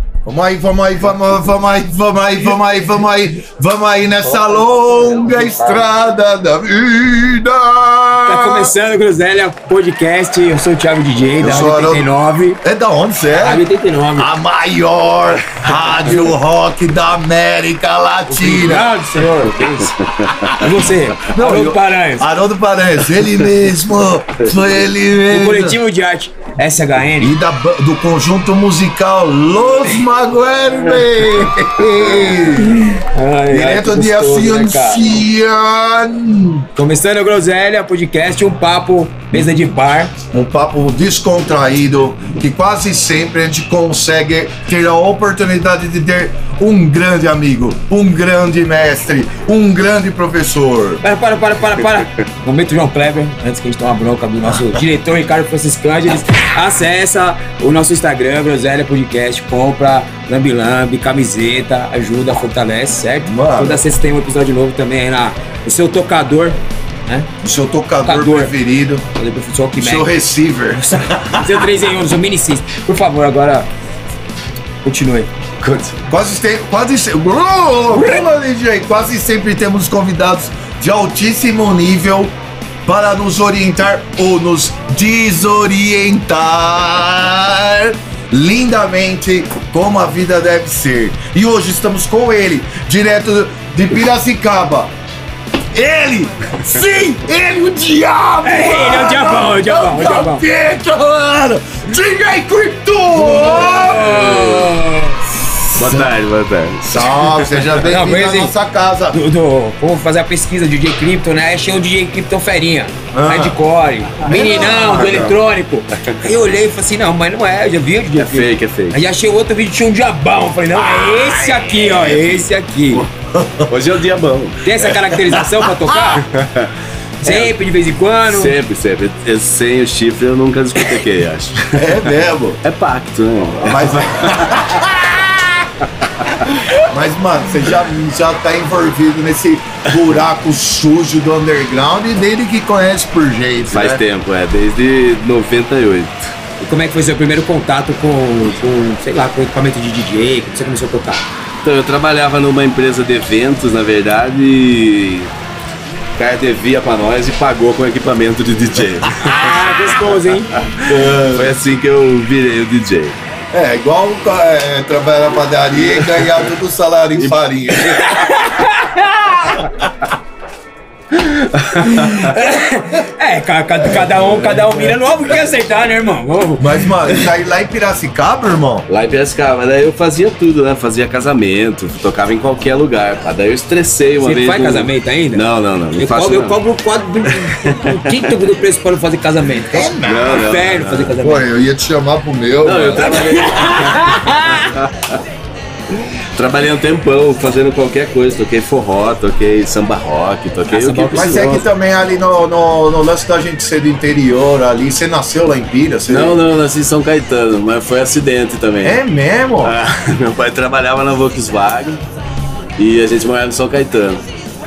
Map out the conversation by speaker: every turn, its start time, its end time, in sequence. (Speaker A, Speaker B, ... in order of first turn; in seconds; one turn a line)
Speaker A: 0.2-8.7
Speaker B: 4.3-5.9
Speaker B: 8.2-12.6
Speaker A: 11.4-12.1
Speaker A: 12.6-13.6
Speaker B: 13.3-14.3
Speaker A: 14.2-19.0
Speaker B: 18.3-19.9
Speaker C: 20.0-20.5
Speaker B: 20.5-22.3
Speaker A: 21.2-25.8
Speaker B: 25.3-27.4
Speaker A: 27.2-32.8
Speaker B: 32.5-35.2
Speaker A: 33.5-36.7
Speaker B: 36.8-40.1
Speaker A: 40.2-51.0
Speaker B: 51.0-67.3
Speaker A: 63.2-63.9
Speaker A: 67.4-69.0
Speaker B: 68.0-68.5
Speaker B: 69.1-70.1
Speaker A: 69.8-71.7
Speaker B: 70.7-73.7
Speaker B: 74.8-75.3
Speaker A: 76.0-94.9
Speaker B: 77.9-78.2
Speaker A: 95.7-104.3
Speaker B: 98.4-100.4
Speaker B: 103.2-105.3
Speaker C: 103.4-104.7
Speaker C: 105.7-107.7
Speaker A: 105.8-106.1
Speaker A: 106.9-109.2
Speaker B: 107.8-108.5
Speaker B: 109.1-123.0
Speaker A: 113.1-113.6
Speaker A: 114.2-115.3
Speaker C: 118.2-119.0
Speaker A: 120.8-123.7
Speaker C: 123.7-124.6
Speaker B: 124.6-126.3
Speaker A: 125.0-125.5
Speaker C: 126.1-126.7
Speaker C: 127.2-127.5
Speaker B: 127.2-128.5
Speaker C: 128.2-132.1
Speaker A: 131.7-132.6
Speaker C: 132.6-134.8
Speaker A: 133.6-135.5
Speaker C: 136.2-136.5
Speaker A: 136.8-144.0
Speaker C: 143.7-146.3
Speaker B: 146.6-151.2
Speaker C: 151.6-155.3
Speaker C: 156.2-159.6
Speaker B: 159.2-160.6
Speaker C: 160.6-163.2
Speaker A: 160.8-161.5
Speaker A: 163.5-168.3
Speaker C: 165.8-166.5
Speaker C: 167.2-168.0
Speaker B: 168.0-169.7
Speaker C: 171.2-172.3
Speaker B: 171.8-176.8
Speaker C: 174.4-174.8
Speaker A: 176.6-178.9
Speaker C: 178.9-186.6
Speaker B: 184.2-191.5
Speaker C: 187.3-188.3
Speaker A: 189.7-190.6
Speaker C: 190.0-191.2
Speaker A: 191.2-193.3
Speaker C: 192.6-195.2
Speaker B: 193.0-194.7
Speaker C: 196.3-201.6
Speaker B: 200.7-201.6
Speaker A: 201.1-206.4
Speaker C: 206.1-209.0
Speaker A: 208.8-209.8
Speaker C: 209.6-212.0
Speaker C: 212.8-214.2